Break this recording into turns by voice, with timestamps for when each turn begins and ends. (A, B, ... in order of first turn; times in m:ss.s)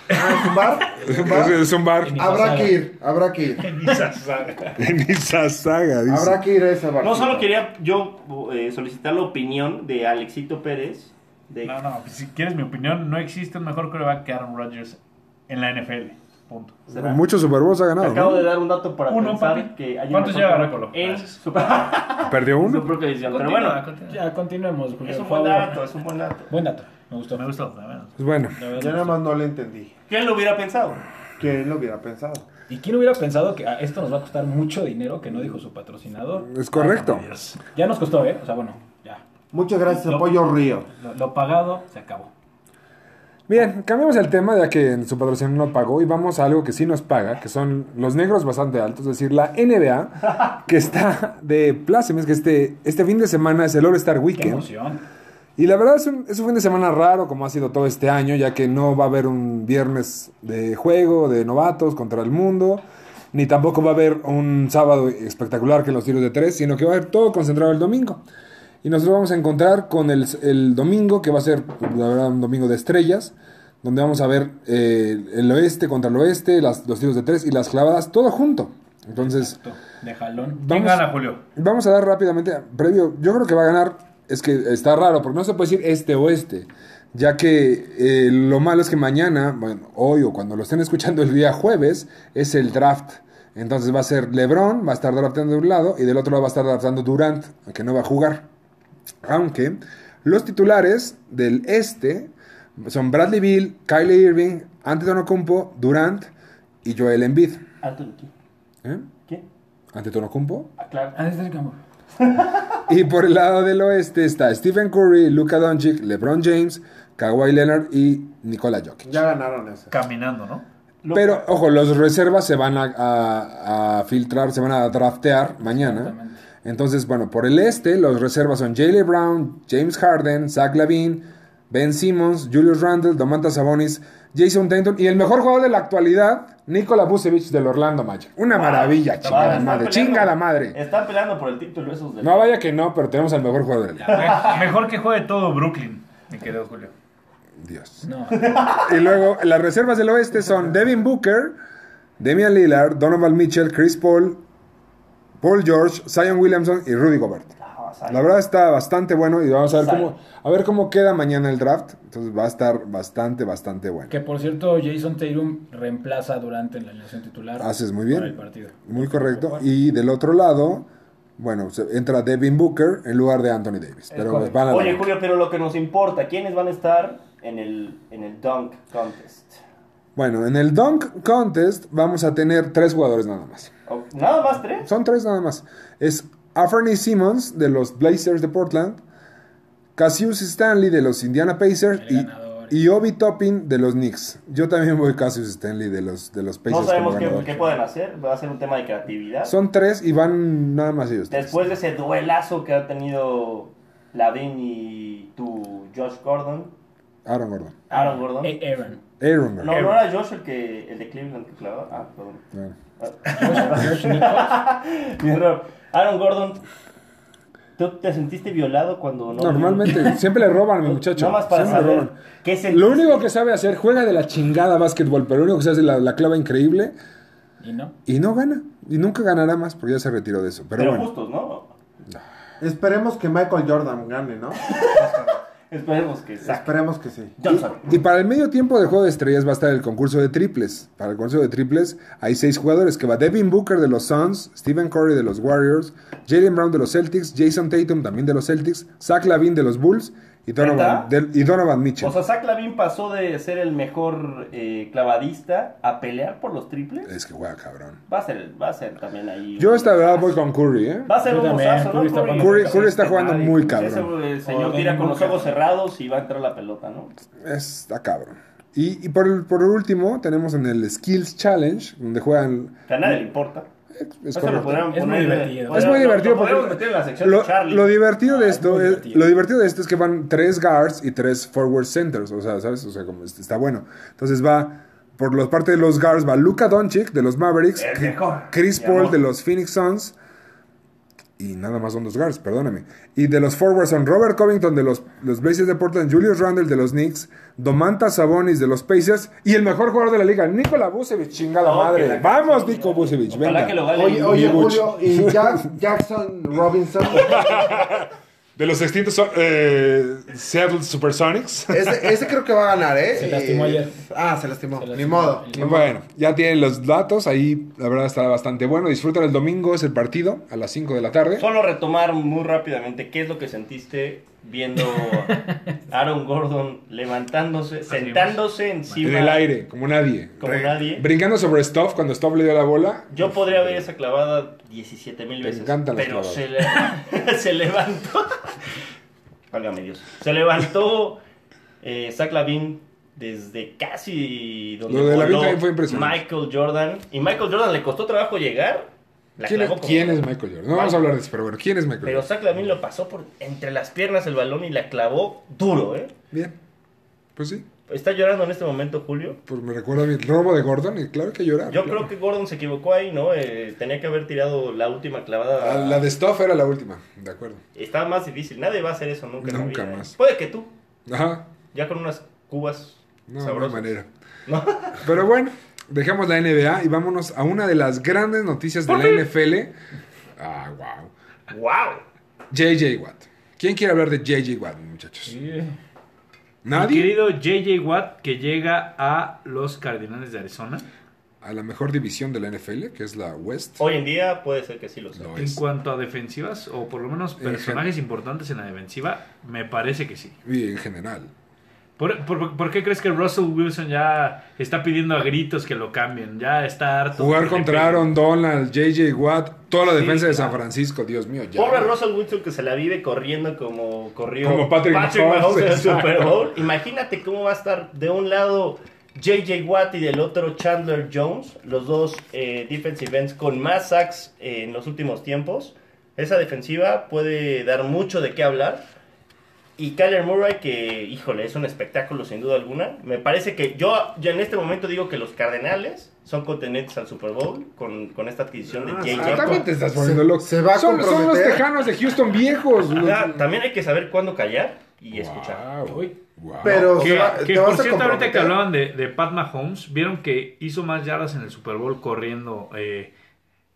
0:00.1-0:03.7 A
0:01.0-0:02.3 B
0:02.0-0:02.8 C
0:03.6-0:04.8 D
0:04.8-0:06.4 B
0:06.1-0:07.5 A
0:07.0-0:11.8 E
0:11.6-0:16.9 D
0:16.9-0:17.2 E
0:16.9-0:18.5 B
0:18.0-0:23.8 E
0:19.1-0:21.4 D
0:22.2-0:23.0 B
0:23.2-0:24.2 D
0:24.1-0:25.8 C
0:25.0-0:26.5 E
0:26.5-0:27.4 C
0:27.3-0:28.2 D
0:28.2-0:28.6 B
0:28.6-0:29.2 C
0:28.7-0:29.9 A
0:30.1-0:31.0 E
0:31.4-0:32.4 A
0:32.7-0:39.2 C
0:36.4-0:37.2 B
0:37.1-0:37.6 D
0:39.5-0:40.9 A
0:39.9-0:40.3 C
0:40.9-0:42.3 C
0:43.5-0:54.7 B
0:54.3-0:55.0 C
0:55.6-1:08.2 B
1:08.8-1:19.6 B
1:19.2-1:20.7 C
1:20.6-1:38.5 B
1:20.7-1:21.4 D
1:39.2-1:46.3 B
1:46.8-1:47.6 B
1:47.8-1:48.3 E
1:49.9-1:50.7 B
1:50.8-1:51.2 E
1:51.1-1:51.8 C
1:52.2-1:52.8 E
1:52.9-1:59.2 B
1:59.0-2:00.0 A
1:59.9-2:00.6 D
2:01.0-2:01.4 E
2:01.1-2:20.8 B
2:05.6-2:06.4 C
2:18.5-2:22.4 E
2:19.2-2:19.8 C
2:22.2-2:24.3 B
2:24.0-2:24.6 C
2:24.1-2:26.9 D
2:27.6-2:31.6 B
2:28.0-2:28.5 C
2:28.4-2:29.1 E
2:32.2-2:34.4 B
2:35.4-2:37.5 B
2:37.6-2:38.2 E
2:38.1-2:44.1 B
2:39.7-2:40.1 E
2:44.1-2:49.6 C
2:47.6-2:50.9 B
2:51.4-2:55.1 B
2:54.1-2:54.6 C
2:54.6-2:59.6 E
3:00.2-3:03.7 B
3:03.9-3:04.9 E
3:04.8-3:09.0 B
3:10.0-3:17.5 B
3:11.9-3:12.8 C
3:16.7-3:19.5 E
3:17.1-3:17.8 C
3:19.4-3:21.8 B
3:21.3-3:26.7 E
3:27.2-3:27.8 B
3:27.9-3:28.6 E
3:27.9-3:29.0 C
3:29.2-3:29.9 B
3:29.6-3:32.4 E
3:33.0-3:36.6 E
3:33.3-3:34.6 C
3:37.8-3:40.2 E
3:39.4-3:42.2 B
3:40.8-3:43.2 E
3:42.7-3:46.9 B
3:47.6-3:48.0 C
3:48.0-3:51.1 B
3:50.7-3:51.7 E
3:52.6-3:55.4 A
3:54.7-3:56.7 E
3:56.4-3:57.4 A
3:57.4-3:57.8 E
3:57.5-4:12.2 B
4:10.6-4:11.1 E
4:12.0-4:17.1 E
4:17.0-4:18.0 B
4:18.1-4:20.4 E
4:19.6-4:21.1 B
4:21.1-4:27.1 E
4:21.2-4:22.8 C
4:22.4-4:24.1 B
4:24.4-4:25.6 C
4:27.4-4:33.2 B
4:32.9-4:33.7 E
4:33.9-4:34.9 B
4:34.3-4:38.0 E
4:34.7-4:36.0 C
4:35.7-4:50.1 B
4:38.2-4:39.3 C
4:47.7-4:49.2 E
4:51.4-5:05.7 B
5:01.6-5:04.8 E
5:03.9-5:07.8 A
5:07.1-5:12.2 B
5:11.7-5:15.9 A
5:13.1-5:14.0 C
5:14.8-5:15.8 C
5:15.5-5:21.5 B
5:21.4-5:29.5 E
5:27.9-5:29.2 D
5:29.0-5:33.9 B
5:30.4-5:31.0 E
5:33.1-5:38.5 E
5:35.4-5:36.4 B
5:39.5-5:41.2 E
5:41.8-5:51.1 E
5:44.9-5:46.2 B
5:49.4-5:52.3 B
5:52.0-5:56.1 E
5:56.3-5:56.6 B
5:57.4-5:57.6 B
5:57.9-5:59.4 E
5:59.5-6:02.1 B
6:01.7-6:06.0 E
6:05.6-6:07.6 B
6:07.8-6:10.7 E
6:09.4-6:10.1 B
6:11.1-6:11.5 B
6:11.7-6:15.1 E
6:13.3-6:14.1 B
6:15.0-6:19.7 B
6:18.9-6:19.2 E
6:20.4-6:21.1 B
6:21.5-6:22.0 E
6:22.5-6:25.3 B
6:25.2-6:25.8 C
6:26.6-6:27.2 B
6:26.7-6:30.8 D
6:31.4-6:33.8 B
6:33.8-6:35.3 E
6:35.2-6:35.6 B
6:35.4-6:40.4 D
6:37.4-6:37.8 B
6:40.4-6:41.3 B
6:42.0-6:48.1 D
6:47.1-6:52.0 B
6:49.8-6:50.5 E
6:51.6-7:08.8 E
6:54.4-6:56.4 B
7:09.8-7:19.7 E
7:18.8-7:21.6 A
7:19.0-7:23.4 B
7:22.9-7:25.6 E
7:25.1-7:27.1 B
7:25.9-7:26.1 C
7:26.6-7:28.6 A
7:26.9-7:33.1 D